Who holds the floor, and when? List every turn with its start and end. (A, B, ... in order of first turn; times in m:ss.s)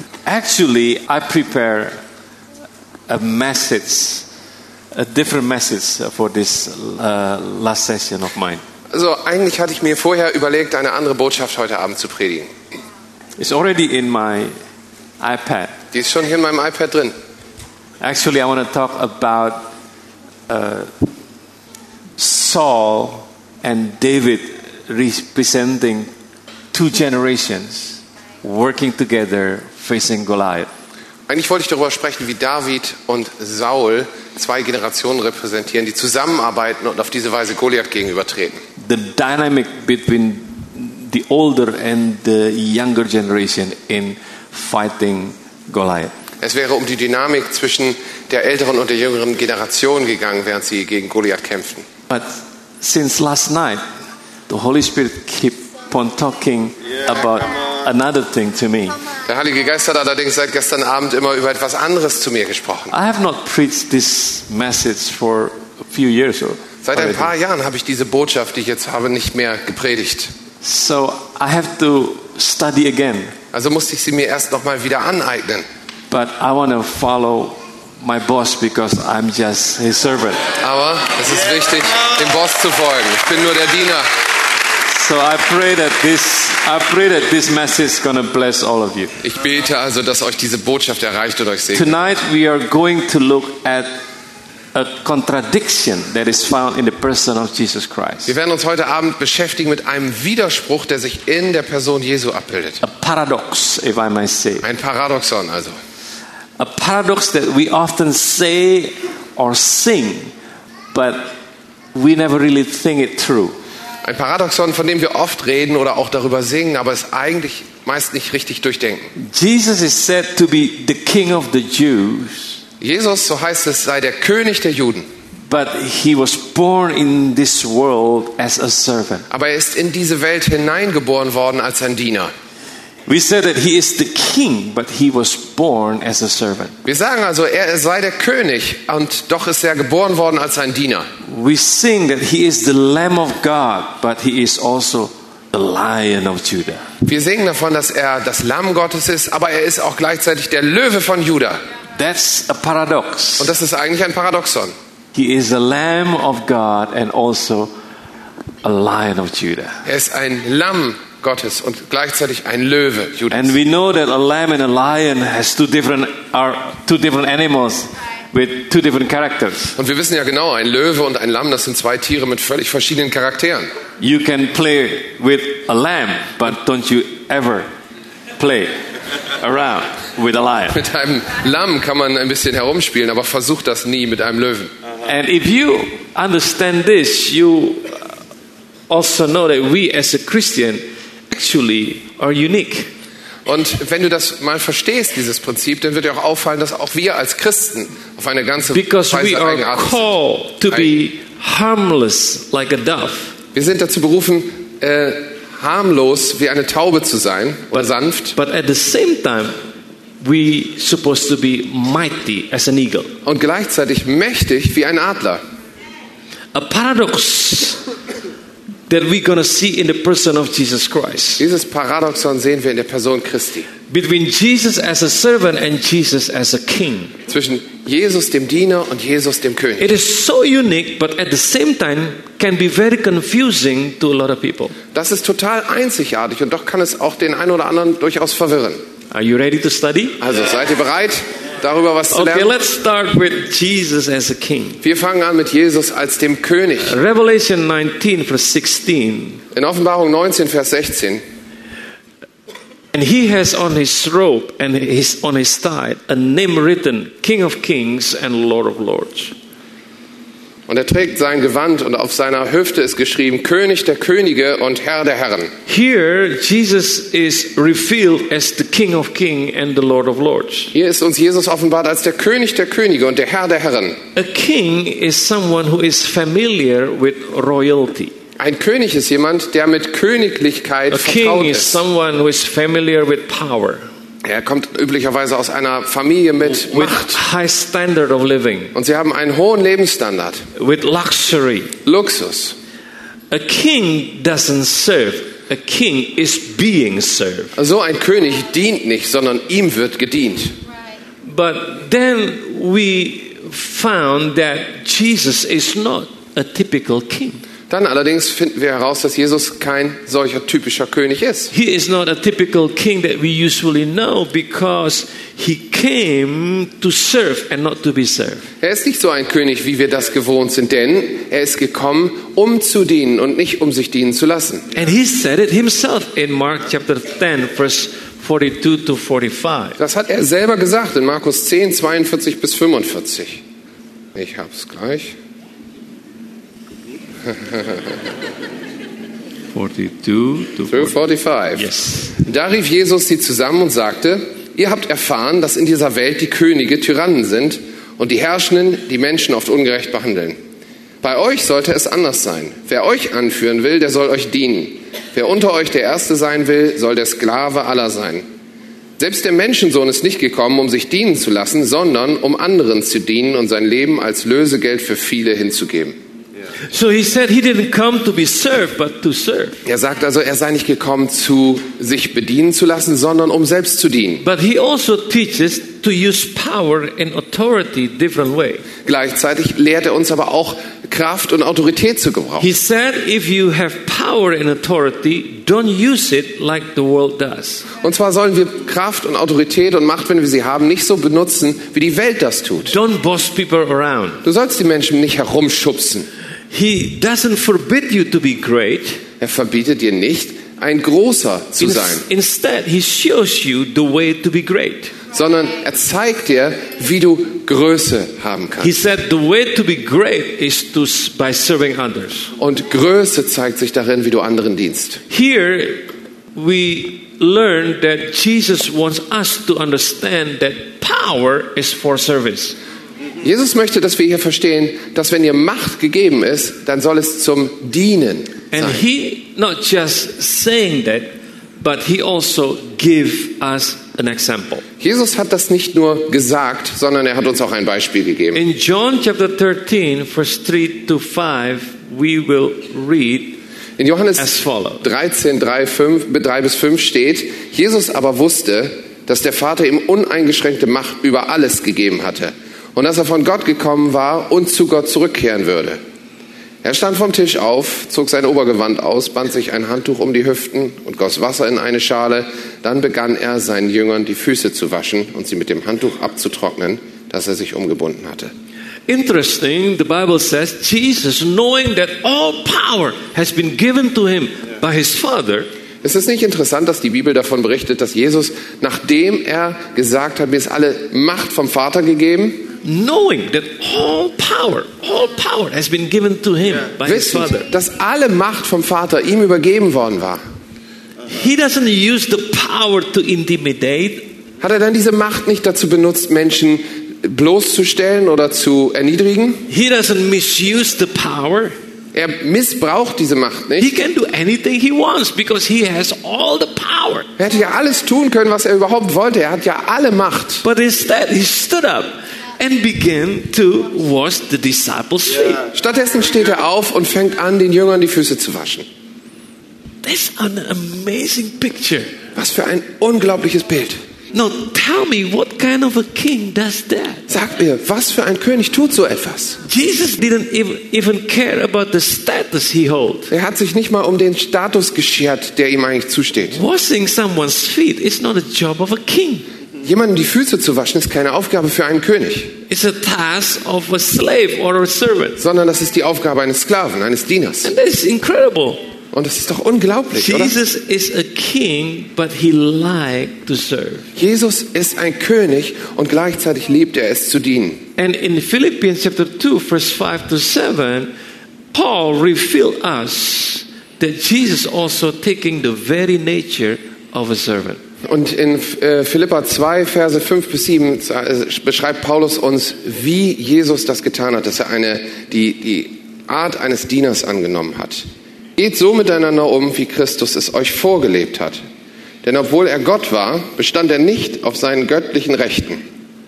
0:00.3-0:02.0 A
0:03.1-0:04.3 A
0:04.9-0:08.6 A
0:08.9-0:12.5 B
0:13.4-0:14.5 A
0:15.2-0:15.8 A
0:15.9-0:17.1 B
0:18.0-0:19.7 A
0:20.5-0:21.1 A
0:22.2-0:26.1 A
0:26.7-0:30.7 A
0:31.3-0:38.6 B
0:38.8-0:46.2 A
0:46.4-0:51.9 B
0:52.1-0:53.8 A
0:54.5-0:59.0 A
0:59.2-1:02.9 B
1:02.9-1:07.3 A
1:06.8-1:10.3 B
1:10.6-1:13.4 A
1:13.5-1:15.6 B
1:16.1-1:20.5 A
1:20.6-1:24.1 B
1:24.9-1:29.1 A
1:29.2-1:32.0 B
1:31.7-1:33.9 A
1:34.7-1:38.3 A
1:38.3-1:42.8 B
1:42.8-1:44.7 A
1:44.6-1:45.7 B
1:46.6-1:50.3 A
1:50.9-1:51.3 A
1:52.0-1:53.6 A
1:54.0-1:59.1 B
1:59.2-2:02.6 A
2:02.8-2:05.1 B
2:05.5-2:09.3 A
2:09.3-2:12.3 B
2:13.1-2:16.7 A
2:16.8-2:21.1 B
2:21.3-2:26.8 A
2:27.0-2:31.6 B
2:32.0-2:33.5 A
2:33.4-2:34.7 B
2:35.2-2:37.7 A
2:38.6-2:39.8 A
2:39.8-2:43.6 B
2:43.3-2:49.8 A
2:49.8-2:53.7 B
2:54.0-2:57.7 A
2:58.4-2:58.7 A
2:59.4-3:00.8 A
3:00.7-3:04.7 B
3:05.1-3:08.1 A
3:08.9-3:12.9 A
3:13.5-3:20.1 B
3:18.7-3:23.4 A
3:23.6-3:28.4 B
3:27.8-3:29.5 A
3:30.2-3:33.1 A
3:33.2-3:35.4 B
3:36.5-3:37.8 A
3:38.9-3:41.4 A
3:41.4-3:43.7 B
3:43.9-3:47.2 A
3:47.3-3:49.9 B
3:49.8-3:54.8 A
3:54.9-3:58.8 B
3:59.1-4:00.2 A
4:00.2-4:02.5 B
4:02.1-4:04.8 A
4:04.8-4:07.0 B
4:06.8-4:09.4 A
4:09.5-4:11.2 B
4:12.9-4:19.4 A
4:20.7-4:25.5 B
4:25.7-4:30.7 A
4:30.7-4:34.0 B
4:34.2-4:38.1 A
4:38.4-4:41.8 B
4:40.9-4:43.8 A
4:44.2-4:47.2 B
4:46.5-4:48.7 A
4:48.7-4:50.4 B
4:50.6-4:51.8 A
4:51.8-4:52.6 B
4:53.3-4:57.6 A
4:57.6-5:00.5 B
5:01.2-5:07.4 A
5:07.7-5:11.5 B
5:11.5-5:18.5 A
5:18.6-5:24.7 B
5:24.7-5:29.8 A
5:29.8-5:33.4 B
5:34.2-5:35.2 B
5:39.5-5:41.0 A
5:40.7-5:41.7 B
5:41.6-5:42.2 A
5:42.2-5:50.4 B
5:51.0-5:58.2 B
5:59.0-6:06.0 B
6:06.7-6:09.6 A
6:09.6-6:14.2 B
6:14.2-6:18.7 A
6:18.8-6:22.5 B
6:22.4-6:27.7 A
6:27.8-6:32.7 B
6:32.6-6:34.2 A
6:34.2-6:36.1 B
6:36.5-6:39.0 A
6:39.2-6:42.1 B
6:41.6-6:45.0 A
6:45.1-6:48.8 B
6:48.6-6:52.3 A
6:52.4-6:55.0 B
6:55.1-7:02.6 A
7:03.2-7:08.8 B
7:08.5-7:14.6 A
7:14.8-7:18.4 B
7:18.3-7:23.4 A
7:23.8-7:35.8 B
7:24.2-7:24.8 A
7:36.6-7:48.3 B
7:48.9-7:55.5 A
7:55.8-8:02.5 B
8:02.6-8:07.5 A
8:06.8-8:10.2 B
8:11.1-8:14.1 A
8:14.4-8:19.5 B
8:19.5-8:21.5 A
8:21.9-8:23.7 B
8:23.6-8:27.1 A
8:27.2-8:30.4 B
8:30.4-8:35.5 A
8:35.5-8:38.6 B
8:39.8-8:41.9 A
8:42.2-8:43.8 B
8:44.1-8:47.1 A
8:47.1-8:49.4 B
8:49.4-8:53.1 A
8:53.1-8:56.4 B
8:56.3-8:59.3 A
8:59.6-9:02.3 B
9:02.5-9:05.2 A
9:05.2-9:07.5 B
9:07.4-9:08.6 A
9:08.9-9:10.4 B
9:09.9-9:13.9 A
9:14.0-9:17.6 B
9:17.8-9:20.9 A
9:21.5-9:27.6 A
9:27.8-9:37.8 B
9:38.4-9:41.4 B
9:42.0-9:45.6 B